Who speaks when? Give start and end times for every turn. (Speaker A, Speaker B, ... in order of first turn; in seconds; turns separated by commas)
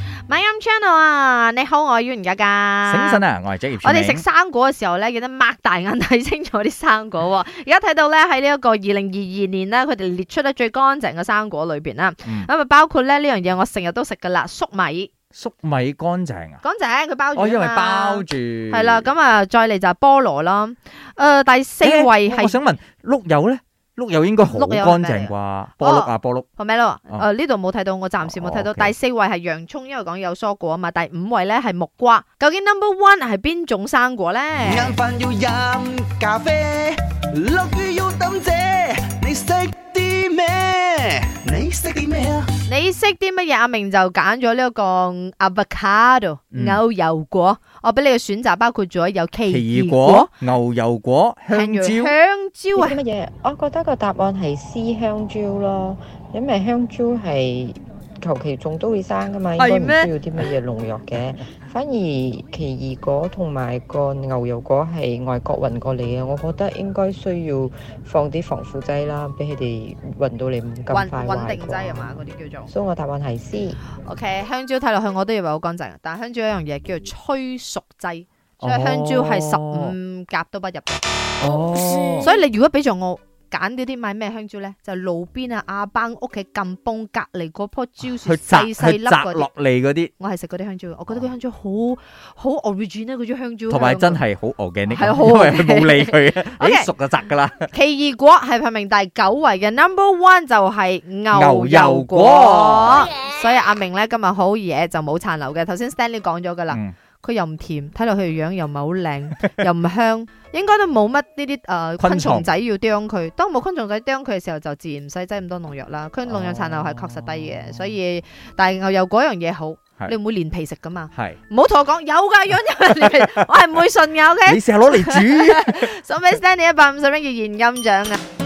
Speaker A: 0.3-3.2, Speaker B: 2.9-4.2, Speaker A: 3.8-15.1, Speaker B: 15.3-16.6, Speaker A: 16.6-22.6, Speaker B: 17.4-19.1, Speaker B: 21.8-26.5, Speaker A: 24.5-35.0, Speaker B: 28.2-28.9, Speaker C: 34.6-42.5, Speaker A: 42.7-50.3, Speaker B: 46.5-46.8, Speaker B: 49.5-52.1, Speaker A: 51.5-53.0, Speaker D: 52.7-73.8, Speaker A: 59.6-60.1, Speaker A: 70.9-72.7, Speaker A: 74.0-81.0, Speaker B: 78.6-79.9, Speaker B: 81.4-82.3, Speaker A: 82.2-89.5, Speaker B: 88.2-90.1, Speaker A: 90.2-94.2, Speaker B: 93.7-97.7, Speaker A: 94.9-96.9, Speaker A: 97.7-128.2, Speaker B: 101.3-103.1, Speaker B: 112.0-112.5, Speaker B: 116.3-117.9, Speaker B: 123.0-123.4, Speaker B: 124.5-125.9